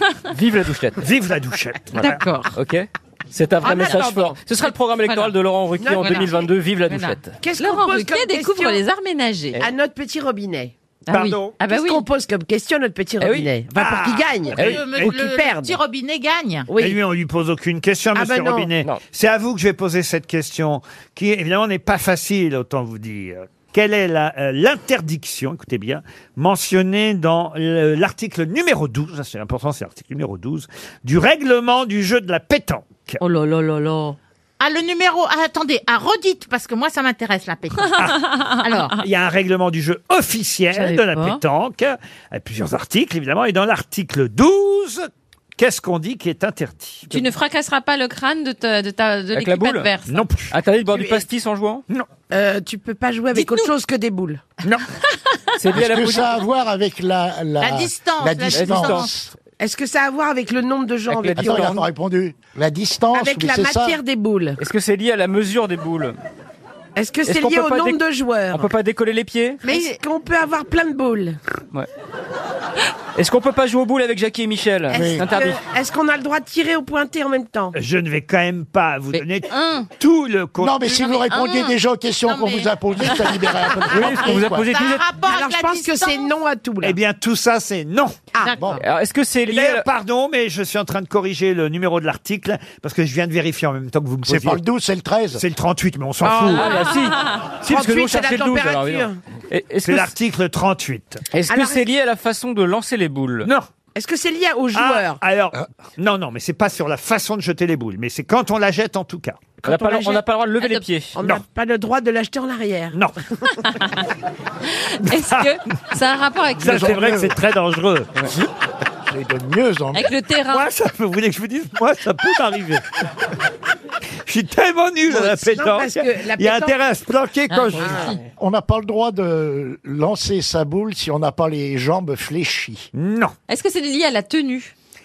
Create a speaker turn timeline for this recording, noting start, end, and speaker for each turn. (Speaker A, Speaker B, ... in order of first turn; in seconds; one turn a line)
Speaker A: 0.3-1.0
Speaker B: 1.0-2.2
Speaker A: 2.0-7.3
Speaker C: 2.0-2.5
Speaker D: 3.6-4.4
Speaker C: 5.0-5.3
Speaker D: 5.8-6.5
Speaker C: 6.0-6.3
Speaker C: 6.9-9.6
Speaker D: 7.4-8.8
Speaker D: 9.6-10.7
Speaker C: 11.1-12.1
Speaker B: 11.1-11.6
Speaker D: 11.6-15.8
Speaker A: 13.2-13.5
Speaker B: 13.8-15.2
Speaker A: 14.6-14.8
Speaker E: 14.6-16.7
Speaker D: 16.7-17.0
Speaker B: 16.8-33.2
Speaker D: 18.1-18.7
Speaker C: 33.2-34.2
Speaker E: 34.6-38.1
Speaker C: 37.8-38.9
Speaker E: 38.6-38.9
Speaker B: 39.0-47.3
Speaker C: 40.7-41.4
Speaker C: 47.1-50.2
Speaker A: 49.3-49.9
Speaker B: 50.0-50.5
Speaker A: 50.5-51.8
Speaker D: 52.3-54.4
Speaker A: 55.6-56.4
Speaker F: 55.7-59.3
Speaker E: 57.6-59.2
Speaker A: 58.5-59.1
Speaker D: 59.6-61.8
Speaker A: 61.1-61.8
Speaker F: 61.4-64.0
Speaker D: 63.1-64.6
Speaker A: 64.6-66.2
Speaker D: 67.0-68.7
Speaker A: 67.2-68.0
Speaker A: 68.5-69.6
Speaker D: 69.6-71.4
Speaker E: 69.7-70.0
Speaker A: 73.2-75.6
Speaker D: 74.9-77.7
Speaker F: 74.9-75.2
Speaker B: 77.7-81.0
Speaker C: 79.5-79.9
Speaker F: 80.6-84.7
Speaker E: 81.3-81.7
Speaker E: 82.2-82.7
Speaker A: 83.9-85.1
Speaker E: 84.5-86.3
Speaker D: 85.2-87.0
Speaker B: 86.8-88.2
Speaker D: 88.3-88.7
Speaker E: 88.4-88.7
Speaker A: 88.8-89.8
Speaker B: 89.5-94.6
Speaker F: 94.2-95.4
Speaker B: 95.3-96.8
Speaker A: 96.2-100.1
Speaker D: 97.6-99.2
Speaker B: 99.8-101.2
Speaker A: 101.3-103.5
Speaker D: 101.5-101.8
Speaker D: 103.9-105.2
Speaker B: 104.7-109.5
Speaker D: 109.6-110.2
Speaker A: 109.6-111.2
Speaker D: 111.1-113.0
Speaker C: 114.9-116.8
Speaker B: 115.0-115.6
Speaker B: 116.6-118.1
Speaker F: 116.6-117.4
Speaker F: 119.1-120.1
Speaker C: 119.9-120.7
Speaker B: 120.5-122.8
Speaker B: 124.3-128.1
Speaker D: 125.1-126.8
Speaker C: 127.5-128.1
Speaker F: 128.4-132.9
Speaker B: 132.9-133.3
Speaker C: 133.5-134.7